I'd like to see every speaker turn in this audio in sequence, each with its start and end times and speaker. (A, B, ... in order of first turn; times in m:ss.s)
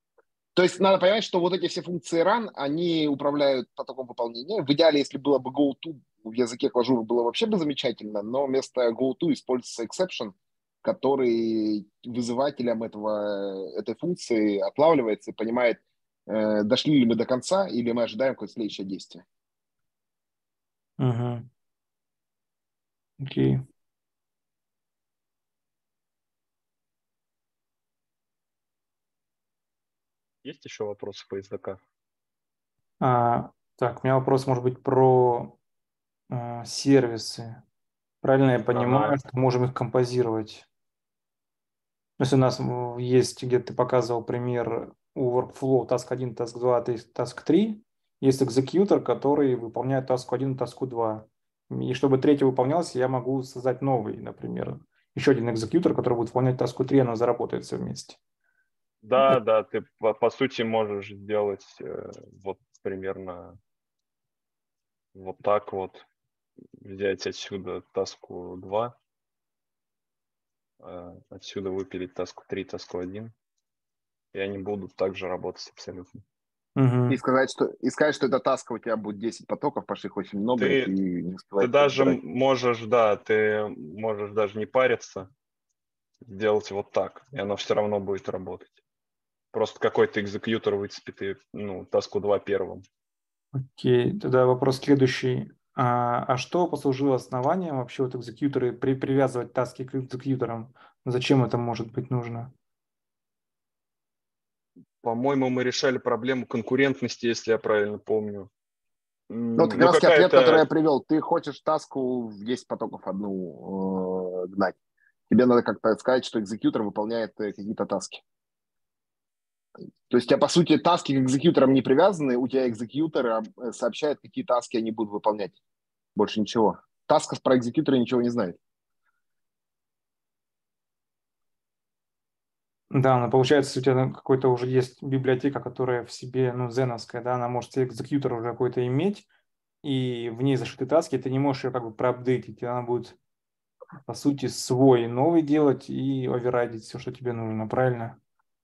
0:00.6-0:19.2 A
0:21.0-0:21.5 B
0:23.2-0:23.6 B
0:30.4-0:31.8 C
0:33.0-0:35.6 B
0:36.3-0:37.6 B
0:38.2-0:40.7 B
0:38.7-0:39.2 C
0:42.2-0:58.2 B
0:59.0-1:03.6 C
1:05.2-1:06.0 C
1:06.8-1:08.9 C
1:10.8-1:13.3 C
1:14.3-1:16.2 C
1:16.8-1:17.2 B
1:17.1-1:22.2 A
1:20.6-1:20.9 C
1:21.6-1:25.3 C
1:26.2-1:28.7 C
1:29.5-1:32.8 C
1:33.5-1:42.5 B
1:45.0-1:48.5 C
1:49.3-1:50.7 C
1:49.6-1:54.8 A
1:55.3-1:58.2 A
2:00.1-2:05.6 A
2:06.2-2:08.6 A
2:12.9-2:19.3 B
2:19.8-2:23.2 B
2:24.1-2:28.2 B